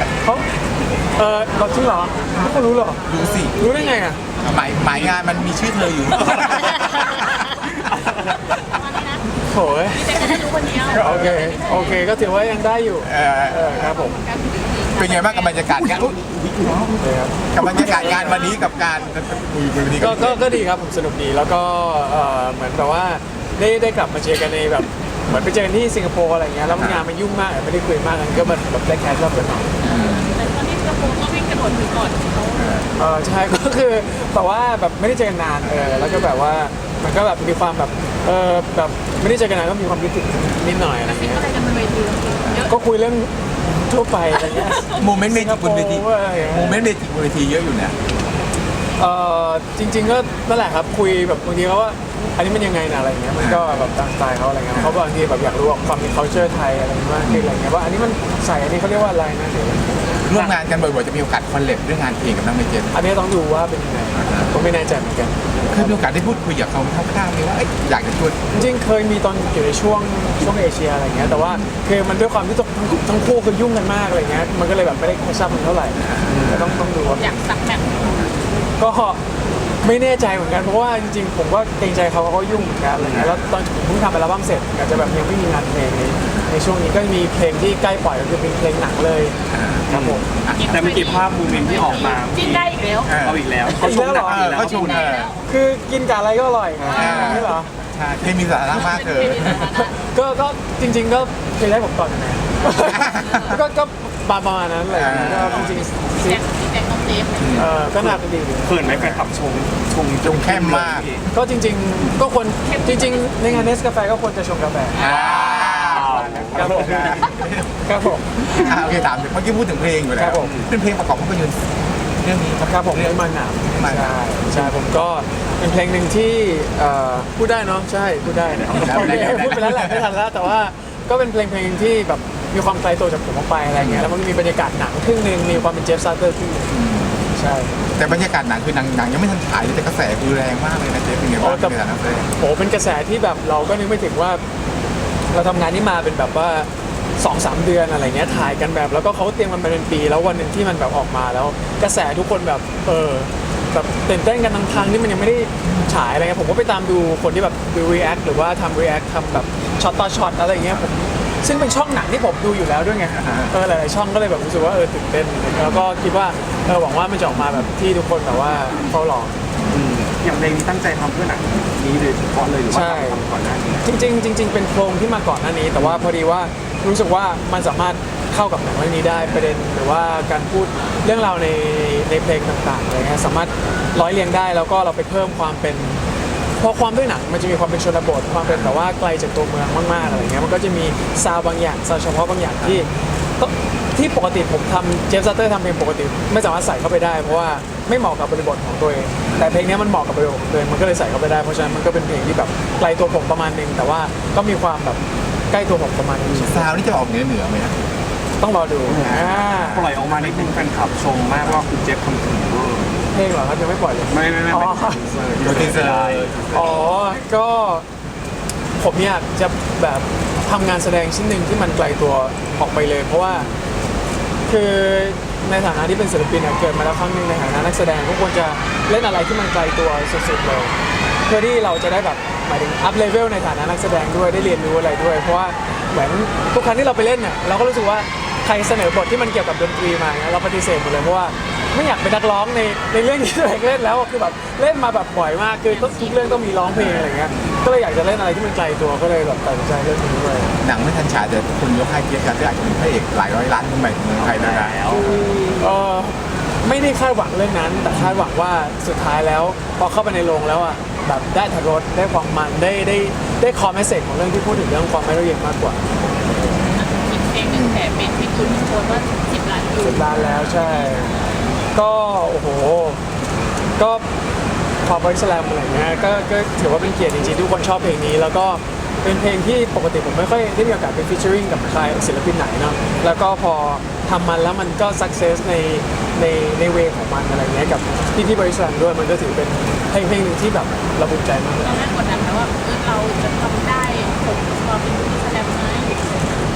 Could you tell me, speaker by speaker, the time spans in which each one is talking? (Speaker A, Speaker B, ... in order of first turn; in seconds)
Speaker A: 0.2-0.5, 1.1-4.2, 9.4-14.2, 17.0-17.4, 20.0-29.8, 33.0-41.5, 42.7-46.9, 49.0-60.5, 62.9-65.3, 68.5-77.4, 78.8-79.2, 79.8-89.4, 89.9-90.2, 93.8-94.4, 95.4-97.7, 99.8-106.4, 107.5-109.2, 111.3-115.2, 116.1-118.7, 120.2-120.5, 122.7-136.7, 137.3-137.8, 141.4-141.8, 142.3-144.4, 145.3-169.4, 172.7-173.2, 173.8-186.0, 186.6-206.8, 208.4-209.9, 213.1-215.0, 216.5-217.9, 218.8-223.5, 224.5-230.7, 231.2-250.6, 255.5-265.8, 269.8-271.1, 271.7-273.0, 273.8-274.1, 274.8-291.8
Speaker B: 3.1-3.6, 4.4-7.5, 13.0-13.9, 14.9-16.2, 17.5-20.6, 26.7-27.1, 29.8-30.3, 32.6-32.9, 44.9-48.0, 57.2-57.5, 60.2-62.9, 64.2-64.5, 65.7-68.4, 71.2-71.7, 89.5-91.2, 93.1-93.5, 94.2-95.3, 96.8-99.7, 102.9-103.6, 104.9-105.8, 107.4-107.7, 110.2-111.1, 115.0-117.7, 118.4-124.8, 128.7-130.1, 133.8-134.1, 136.7-137.2, 137.9-142.3, 163.2-163.5, 199.3-199.6, 206.3-207.8, 209.1-210.4, 215.4-216.8, 250.6-254.8, 267.4-267.8, 270.0-270.6
Speaker C: 6.3-6.9, 8.0-8.4, 15.8-17.0, 17.6-18.2, 76.3-76.8, 83.0-83.3, 89.9-95.1, 105.1-105.6, 107.9-111.2, 115.1-117.3, 120.4-120.7, 128.4-129.3, 169.7-174.1, 175.8-176.1, 179.2-179.6, 208.9-213.0, 214.1-216.9, 247.1-247.6, 254.2-255.3
Speaker D: 8.7-9.2, 9.9-11.9, 13.7-15.6, 17.8-18.4, 29.9-32.8, 41.0-42.7, 77.1-78.3, 90.5-93.2, 94.5-95.4, 96.9-97.4, 98.7-100.0, 103.2-103.4, 105.7-107.7, 112.6-113.3, 115.0-115.5, 245.7-246.7, 266.8-270.1, 291.6-296.0